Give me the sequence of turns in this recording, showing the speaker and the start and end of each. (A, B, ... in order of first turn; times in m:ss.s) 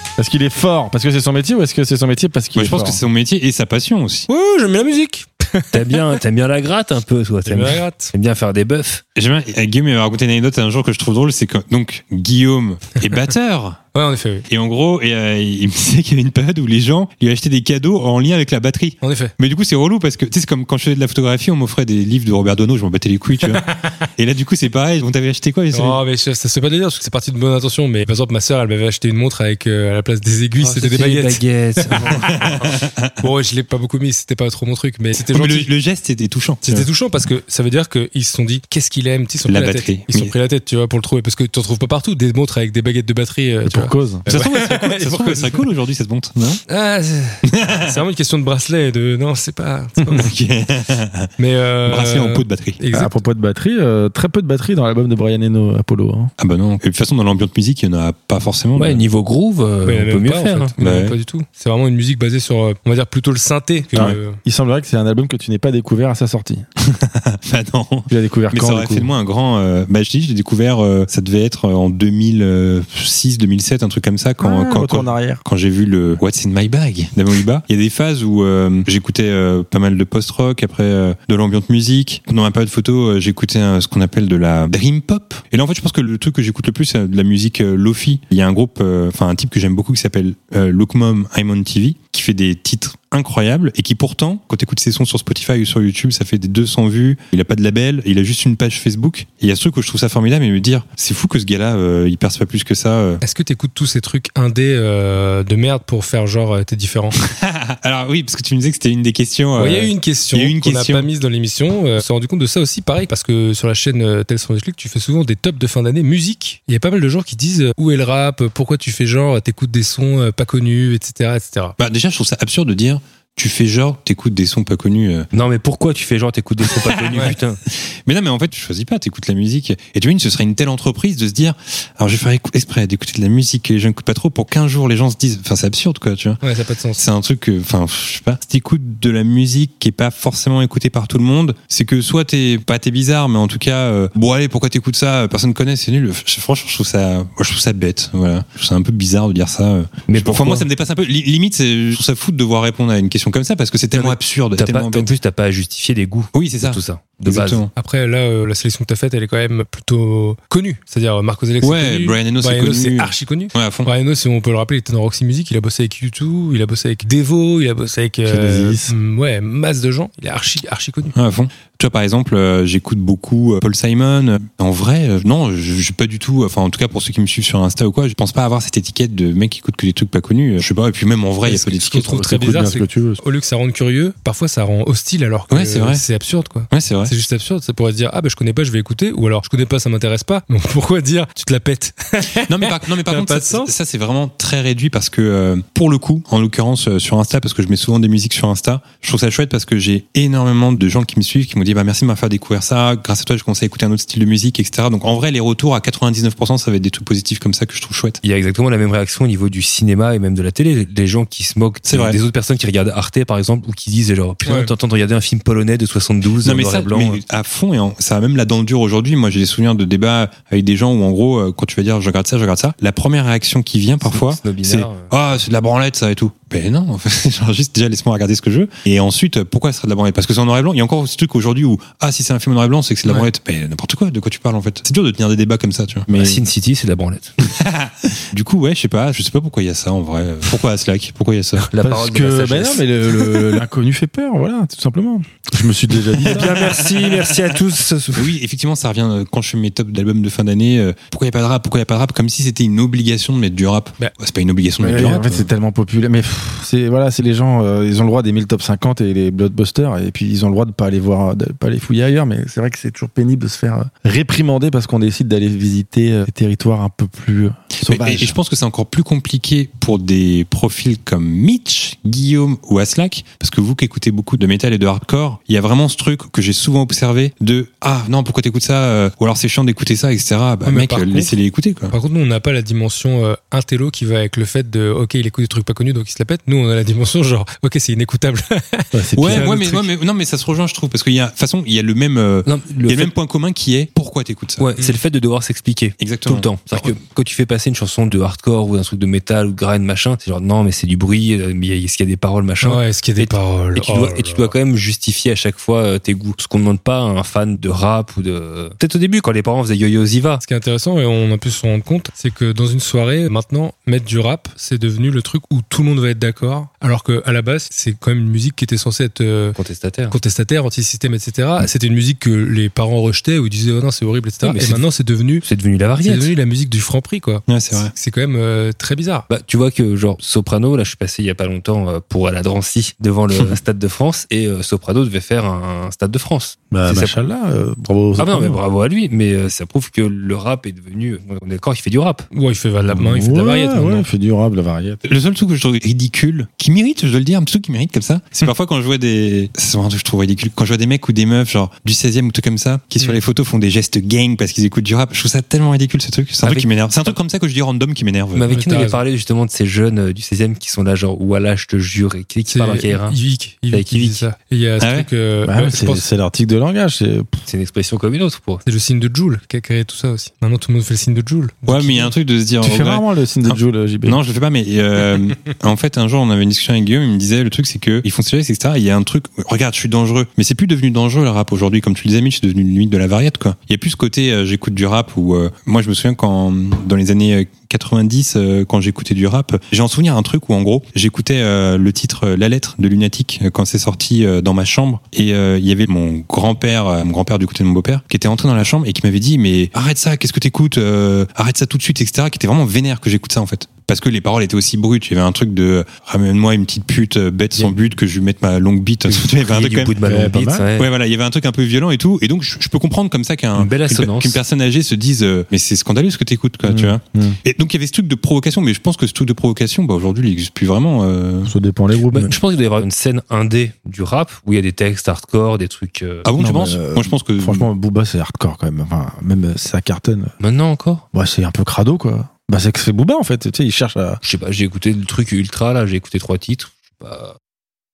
0:00.2-0:03.0 A
0:02.6-0:04.3 B
0:04.3-0:06.2 C
0:05.7-0:09.0 D
0:07.5-0:08.1 C
0:09.2-0:13.8 B
0:13.9-0:14.5 C
0:14.5-0:23.7 B
0:19.0-0:19.3 C
0:23.4-0:24.0 C
0:24.2-0:26.0 B
0:25.7-0:32.7 C
0:30.6-0:32.3 D
0:32.2-0:33.2 B
0:33.2-0:35.7 C
0:35.2-0:36.9 B
0:36.6-0:45.7 C
0:39.5-0:40.3 B
0:43.6-0:44.2 A
0:44.3-0:46.6 B
0:46.7-0:50.3 C
0:47.4-0:48.0 B
0:50.1-0:51.3 B
0:51.4-0:53.1 C
0:51.8-0:52.8 B
0:52.9-0:56.3 A
0:56.4-0:59.0 B
0:58.8-1:00.7 D
0:59.8-1:04.4 C
1:00.8-1:01.2 B
1:04.0-1:06.6 A
1:06.8-1:43.2 B
1:08.1-1:09.1 A
1:14.4-1:15.4 A
1:43.2-1:47.2 C
1:47.2-1:51.1 B
1:49.6-2:01.8 C
2:01.8-2:05.3 B
2:05.3-2:07.6 D
2:06.7-2:16.4 B
2:16.4-2:17.0 C
2:17.0-2:35.1 B
2:30.1-2:30.7 D
2:33.9-2:37.6 D
2:36.3-2:37.7 B
2:37.8-2:51.2 C
2:41.6-2:43.9 B
2:48.3-2:48.9 A
2:51.1-3:02.3 B
3:01.4-3:13.7 C
3:02.1-3:03.2 A
3:05.5-3:06.0 B
3:06.7-3:07.1 B
3:12.4-3:28.2 B
3:28.2-3:37.2 D
3:31.9-3:32.2 B
3:34.5-3:34.7 C
3:36.4-3:56.1 B
3:44.0-3:45.1 D
3:56.1-3:56.4 A
3:56.1-3:57.4 D
3:57.4-4:01.7 B
4:01.6-4:03.5 D
4:01.8-4:06.6 A
4:06.2-4:07.5 B
4:06.3-4:08.3 D
4:08.2-4:15.5 B
4:14.8-4:28.4 A
4:27.8-4:42.0 B
4:40.7-4:41.4 C
4:41.9-4:49.8 C
4:48.9-4:49.6 A
4:49.2-4:54.7 B
4:52.4-4:53.1 D
4:54.6-5:10.4 D
4:56.0-4:56.9 B
5:02.6-5:04.5 C
5:10.4-5:19.6 C
5:19.6-5:20.2 D
5:20.1-5:25.5 C
5:24.4-5:24.9 D
5:25.4-5:26.3 D
5:26.0-5:29.3 C
5:27.5-5:27.9 B
5:29.3-5:37.2 D
5:36.7-5:38.6 A
5:38.2-5:42.3 D
5:42.3-5:44.1 C
5:42.9-5:45.0 A
5:45.0-5:58.5 B
5:56.4-5:57.2 D
5:58.3-6:03.2 D
5:58.5-5:59.0 C
6:02.5-6:06.0 C
6:03.7-6:04.2 D
6:04.8-6:05.1 B
6:05.4-6:07.4 A
6:07.5-6:08.6 D
6:08.7-6:12.1 C
6:11.7-6:50.0 B
6:12.6-6:14.2 A
6:49.1-6:50.9 D
6:50.0-6:50.7 A
6:50.8-7:01.5 B
6:53.6-6:54.4 D
6:56.7-6:57.4 A
7:01.4-7:02.4 A
7:02.0-7:06.3 D
7:06.2-7:07.7 B
7:06.4-7:10.3 A
7:10.4-7:11.0 D
7:11.1-7:14.2 A
7:14.2-7:17.4 D